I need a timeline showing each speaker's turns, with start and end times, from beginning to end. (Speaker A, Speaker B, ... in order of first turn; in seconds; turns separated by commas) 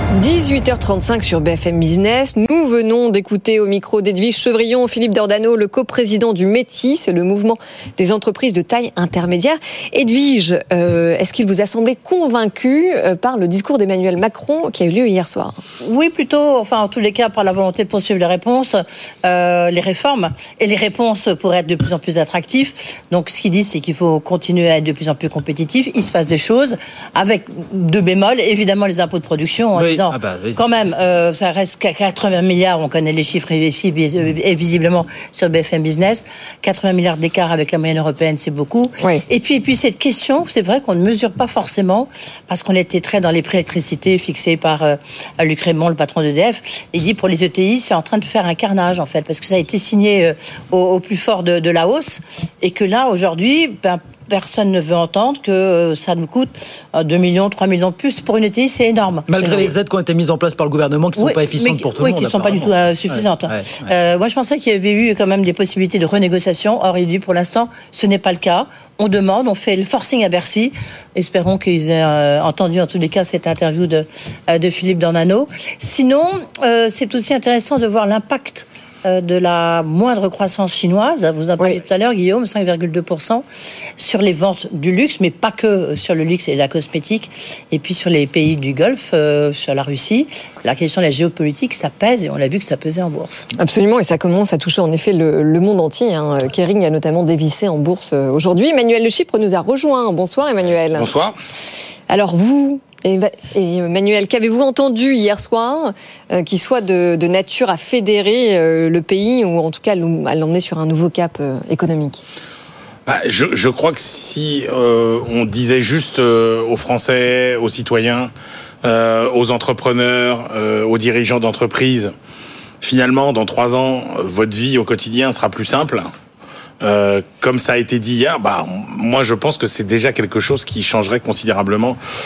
Speaker A: 0.1-15.6, Speaker B: 15.8-59.7, Speaker C: 29.8-30.6, Speaker C: 59.3-63.8, Speaker B: 61.2-83.5, Speaker B: 84.0-93.5, Speaker A: 93.6-101.1, Speaker D: 101.0-101.3, Speaker A: 102.1-112.2, Speaker D: 113.1-118.3, Speaker D: 118.8-122.1, Speaker D: 122.8-126.1, Speaker D: 126.8-132.0